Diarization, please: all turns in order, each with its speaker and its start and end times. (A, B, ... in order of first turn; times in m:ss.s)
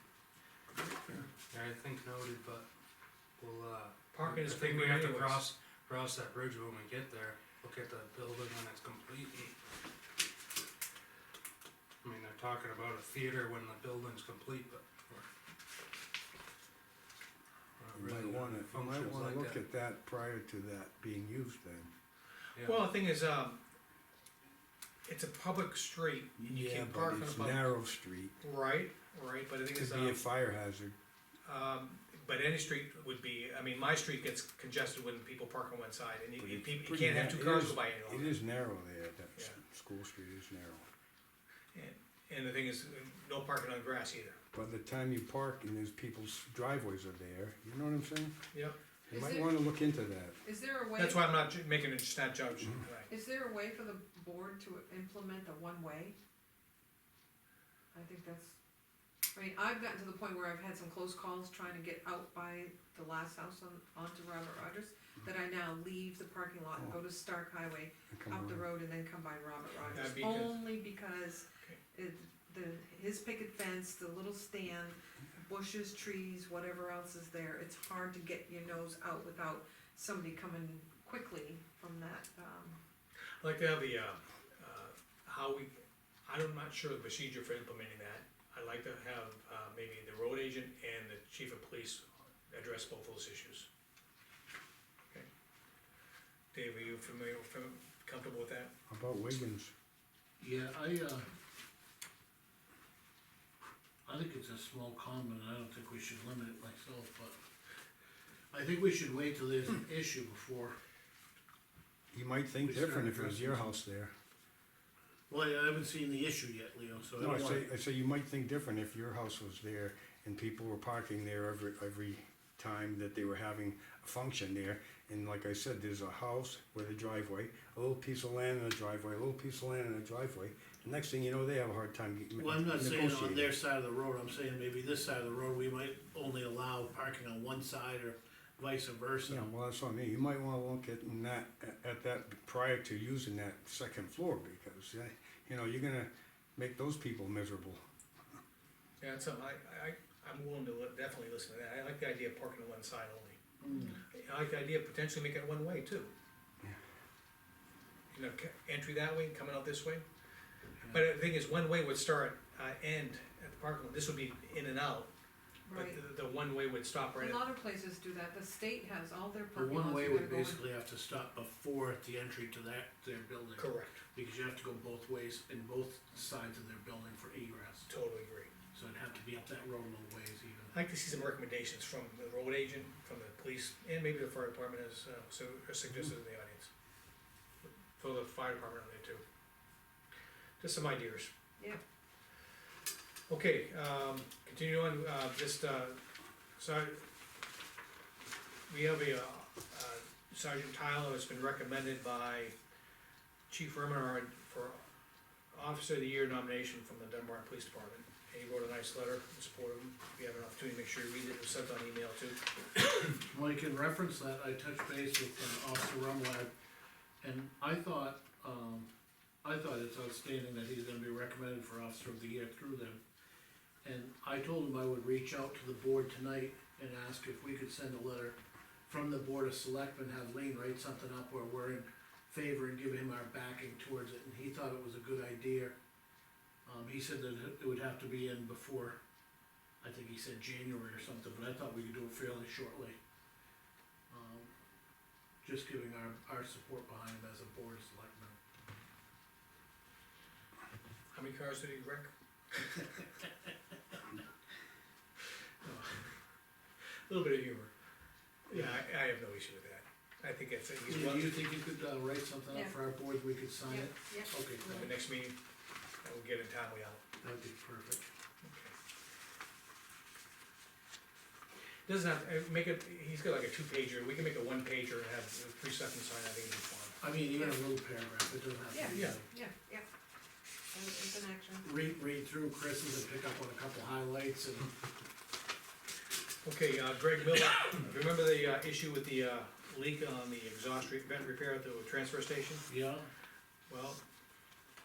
0:01.1-0:02.6 A
0:03.4-0:09.5 A
0:04.1-0:05.4 B
0:12.0-0:15.3 A
0:17.8-0:19.6 A
0:17.9-0:21.9 C
0:22.6-0:23.6 B
0:25.0-0:27.7 B
0:26.4-0:28.3 C
0:28.4-0:30.2 B
0:29.7-0:31.0 C
0:31.4-0:38.4 B
0:36.4-0:40.9 C
0:41.7-0:44.4 B
0:44.5-0:48.4 C
0:49.1-0:50.4 C
0:50.7-0:51.2 A
0:51.0-0:53.1 B
0:53.1-0:56.1 D
0:57.9-0:58.5 D
0:59.4-1:11.4 D
0:59.4-1:00.0 A
1:08.1-1:08.7 C
1:09.9-1:10.6 B
1:10.2-1:10.4 A
1:11.9-1:22.8 D
1:23.4-1:25.7 B
1:26.2-1:33.7 B
1:36.5-1:38.7 B
1:38.9-1:39.7 C
1:40.4-1:41.3 E
1:44.0-1:47.4 E
1:48.5-1:50.7 E
1:52.1-1:54.1 C
1:52.6-1:53.8 E
1:55.3-1:57.7 E
1:57.2-2:13.5 C
2:12.4-2:19.4 E
2:19.3-2:27.8 C
2:29.0-2:33.4 B
2:33.6-2:34.0 E
2:34.1-2:36.1 B
2:38.1-2:40.0 B
2:40.9-2:45.1 B
2:45.7-2:47.5 B
2:47.2-2:47.6 A
2:47.2-2:50.5 D
2:49.4-2:50.6 A
2:49.5-2:57.9 E
2:53.6-2:54.0 B
2:57.9-2:58.5 B
2:58.7-3:00.7 E
3:00.7-3:06.7 B
3:07.6-3:09.2 B
3:10.6-3:11.3 B
3:13.3-3:16.0 B
3:16.6-3:17.0 B
3:18.7-3:22.6 B
3:23.5-3:24.8 B
3:25.5-3:32.4 B
3:33.3-3:36.5 E
3:37.2-3:38.9 E
3:39.4-3:43.0 E
3:43.8-3:55.8 E
3:56.6-3:59.0 E
3:59.8-4:03.0 E
4:04.1-4:04.5 E
4:05.4-4:08.4 E
4:11.1-4:12.9 B
4:15.6-4:16.2 B
4:17.1-4:17.7 B
4:18.5-4:21.4 B
4:20.8-4:24.6 E
4:23.8-4:24.9 A
4:24.6-4:25.4 B
4:26.0-4:27.0 B
4:27.2-4:28.1 E
4:28.4-4:28.7 B
4:31.8-4:37.0 B
4:37.0-4:39.2 E
4:38.7-4:39.8 D
4:38.8-4:39.6 A
4:38.9-4:39.2 B
4:40.7-4:41.6 D
4:40.7-4:41.6 A
4:41.6-4:44.7 E
4:46.4-4:52.6 B
4:52.7-4:53.1 E
4:53.7-4:54.0 B